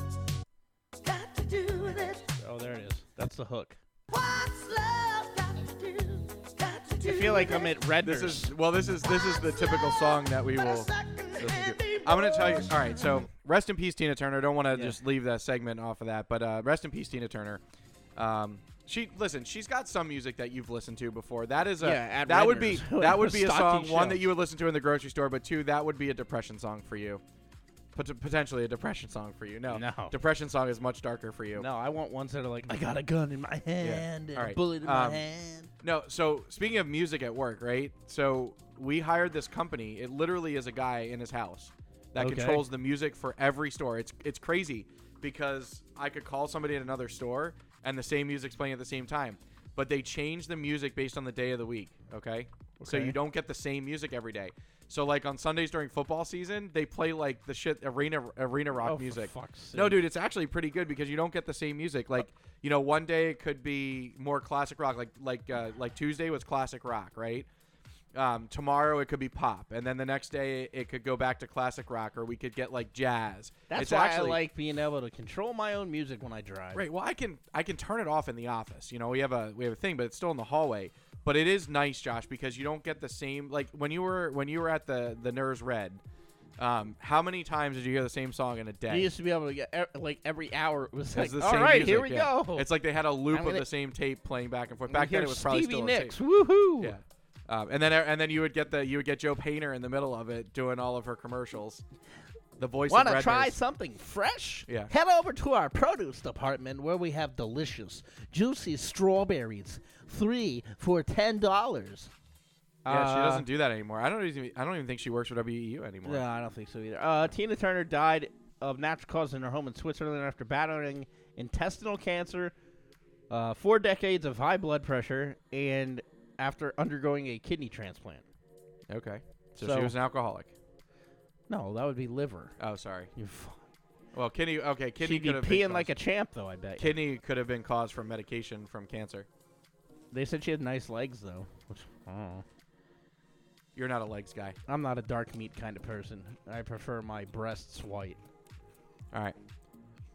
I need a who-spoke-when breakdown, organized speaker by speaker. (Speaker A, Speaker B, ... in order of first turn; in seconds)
Speaker A: 1.0-2.3, 4.1-7.9, 8.9-13.2
Speaker B: 2.4-3.8, 7.0-8.6, 14.7-15.0, 21.8-24.2, 29.7-30.2, 31.6-35.7, 42.2-42.7, 52.8-53.2, 58.8-60.0, 73.7-76.9, 88.9-92.7, 93.3-93.7, 94.9-97.0, 102.9-112.1, 112.8-113.5, 116.0-122.5, 123.3-128.3, 129.6-129.9, 131.5-132.6, 133.2-133.6, 135.0-137.0, 140.1-142.4, 144.7-148.2
Speaker C: 8.0-17.6, 18.2-27.2, 27.9-31.7, 33.8-35.3, 35.8-67.5, 68.1-74.4, 76.7-86.0, 86.6-89.1, 91.1-96.2, 96.8-101.8, 102.6-103.6, 104.7-104.9, 112.9-116.2, 128.9-130.5, 132.6-133.1, 134.1-135.9, 136.8-139.3, 143.8-144.6, 149.1-149.4